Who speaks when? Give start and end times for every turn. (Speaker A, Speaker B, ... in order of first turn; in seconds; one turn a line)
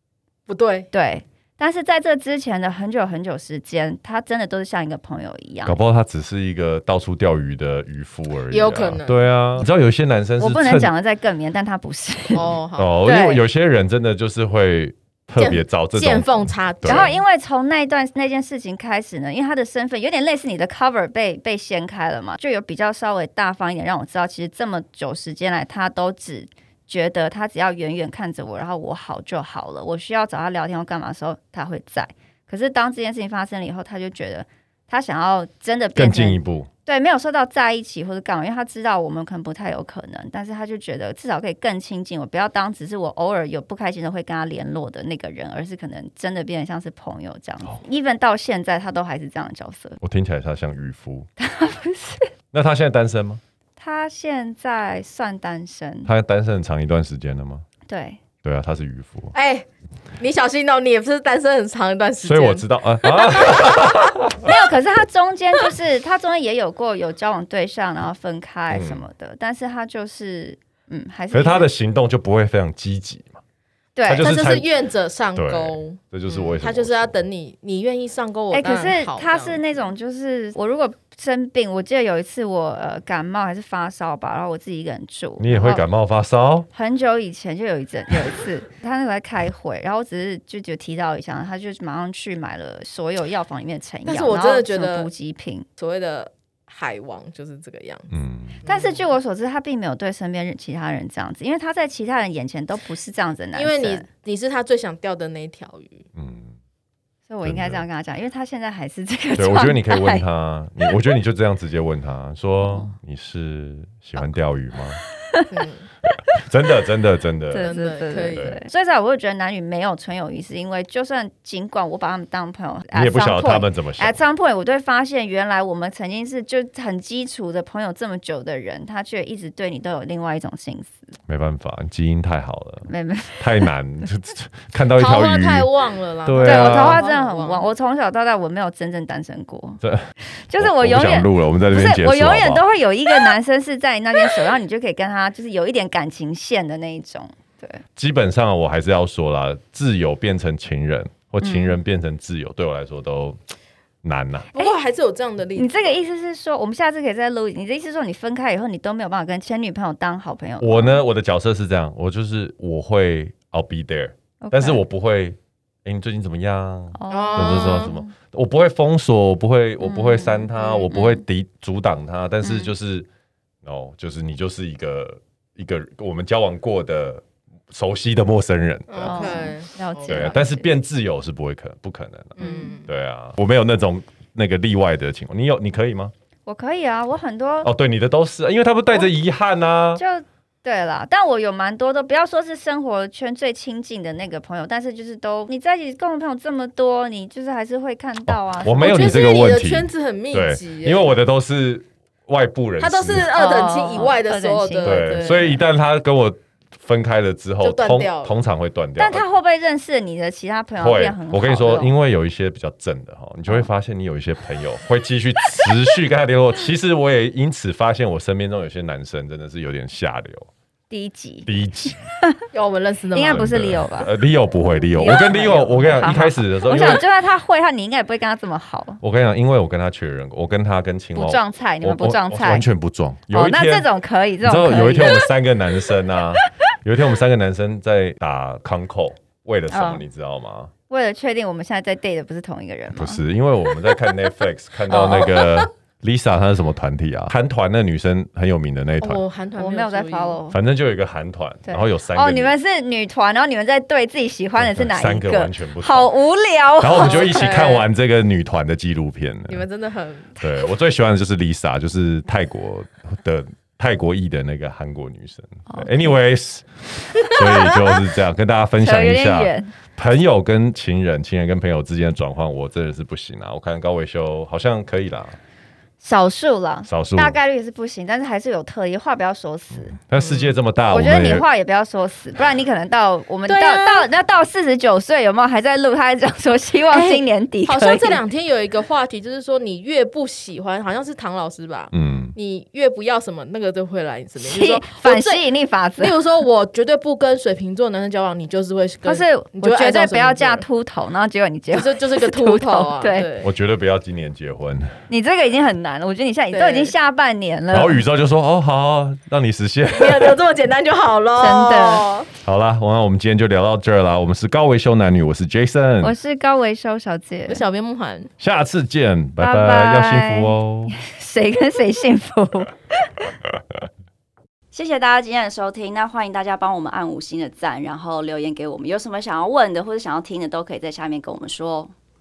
Speaker A: 0.5-0.9
Speaker B: 0.9-5.8
Speaker C: 5.6-10.9
Speaker A: 8.5-9.6
Speaker B: 10.4-13.4
Speaker A: 12.3-12.9
Speaker C: 12.8-17.1
Speaker A: 15.4-17.2
Speaker B: 16.9-50.0
Speaker C: 36.0-36.7
Speaker C: 50.0-51.3
Speaker B: 51.4-52.3
Speaker C: 52.5-53.4
Speaker B: 53.8-56.1
Speaker C: 56.0-57.6
Speaker B: 57.9-58.2
Speaker C: 58.4-59.3
Speaker A: 59.3-59.7
Speaker A: 60.2-63.7
Speaker C: 62.2-64.6
Speaker B: 64.4-71.7
Speaker C: 68.7-69.0
Speaker C: 71.3-73.4
Speaker B: 74.0-74.3
Speaker C: 74.0-74.7
Speaker A: 74.2-79.6
Speaker C: 75.3-77.2
Speaker B: 78.5-85.8
Speaker C: 85.4-86.7
Speaker B: 86.7-95.7
Speaker A: 94.0-95.1
Speaker A: 95.8-98.1
Speaker C: 98.1-98.6
Speaker A: 98.6-99.0
Speaker B: 98.6-104.0
Speaker A: 103.5-106.0
Speaker C: 106.1-106.6
Speaker B: 107.3-110.2
Speaker C: 107.4-107.8
Speaker C: 109.4-115.0
Speaker B: 112.6-112.9
Speaker B: 115.0-115.5
Speaker A: 115.5-115.9
Speaker C: 116.1-117.7
Speaker B: 117.5-131.1
Speaker A: 117.6-118.6
Speaker C: 122.9-124.2
Speaker C: 131.3-135.7
Speaker B: 132.9-133.7
Speaker A: 134.9-137.6
Speaker C: 136.2-137.0
Speaker B: 136.4-139.8
Speaker C: 139.8-142.7
Speaker B: 140.3-147.8
Speaker C: 147.9-153.4
Speaker B: 151.4-151.8
Speaker C: 154.0-154.5
Speaker A: 154.5-155.9
Speaker B: 155.6-161.0
Speaker C: 160.6-173.1
Speaker B: 164.4-164.8
Speaker B: 166.9-168.1
Speaker A: 167.1-167.9
Speaker B: 169.8-171.2
Speaker B: 172.4-172.7
Speaker C: 173.6-179.5
Speaker A: 178.9-180.3
Speaker B: 179.0-180.7
Speaker C: 180.1-186.1
Speaker A: 182.4-182.9
Speaker B: 182.4-182.8
Speaker B: 186.4-187.7
Speaker C: 187.6-190.0
Speaker B: 189.9-199.6
Speaker C: 198.3-203.4
Speaker A: 198.8-201.1
Speaker A: 202.8-205.6
Speaker B: 203.3-205.6
Speaker C: 204.8-209.2
Speaker A: 207.6-208.3
Speaker B: 209.0-211.9
Speaker C: 210.8-220.5
Speaker B: 220.9-221.5
Speaker C: 221.4-222.0
Speaker B: 222.1-222.4
Speaker A: 222.5-223.7
Speaker B: 223.1-224.1
Speaker C: 223.3-227.0
Speaker B: 224.9-229.0
Speaker C: 229.0-233.9
Speaker B: 231.1-232.7
Speaker B: 233.3-235.3
Speaker C: 234.4-240.7
Speaker B: 239.7-240.0
Speaker B: 240.9-243.2
Speaker C: 242.9-249.2
Speaker B: 244.9-245.7
Speaker A: 249.0-250.4
Speaker B: 249.6-250.6
Speaker C: 250.5-252.5
Speaker B: 251.7-257.5
Speaker C: 254.6-256.1
Speaker C: 256.8-259.6
Speaker A: 257.0-257.9
Speaker A: 259.5-260.4
Speaker C: 260.4-275.4
Speaker B: 265.7-266.1
Speaker B: 268.8-269.7
Speaker B: 276.0-280.0
Speaker C: 276.9-277.4
Speaker C: 280.1-281.4
Speaker A: 280.2-280.5
Speaker B: 280.9-288.2
Speaker A: 283.4-284.1
Speaker A: 286.9-295.5
Speaker C: 291.9-292.4
Speaker B: 294.4-296.1
Speaker A: 296.0-300.6
Speaker B: 299.0-303.3
Speaker A: 301.7-303.5
Speaker C: 303.4-304.9
Speaker B: 305.1-308.0
Speaker A: 306.5-306.9
Speaker C: 307.7-310.4
Speaker A: 309.9-312.3
Speaker B: 311.4-312.1
Speaker C: 312.4-316.1
Speaker B: 316.0-317.6
Speaker A: 317.5-318.3
Speaker C: 318.4-320.9
Speaker B: 319.4-323.2
Speaker B: 324.7-331.9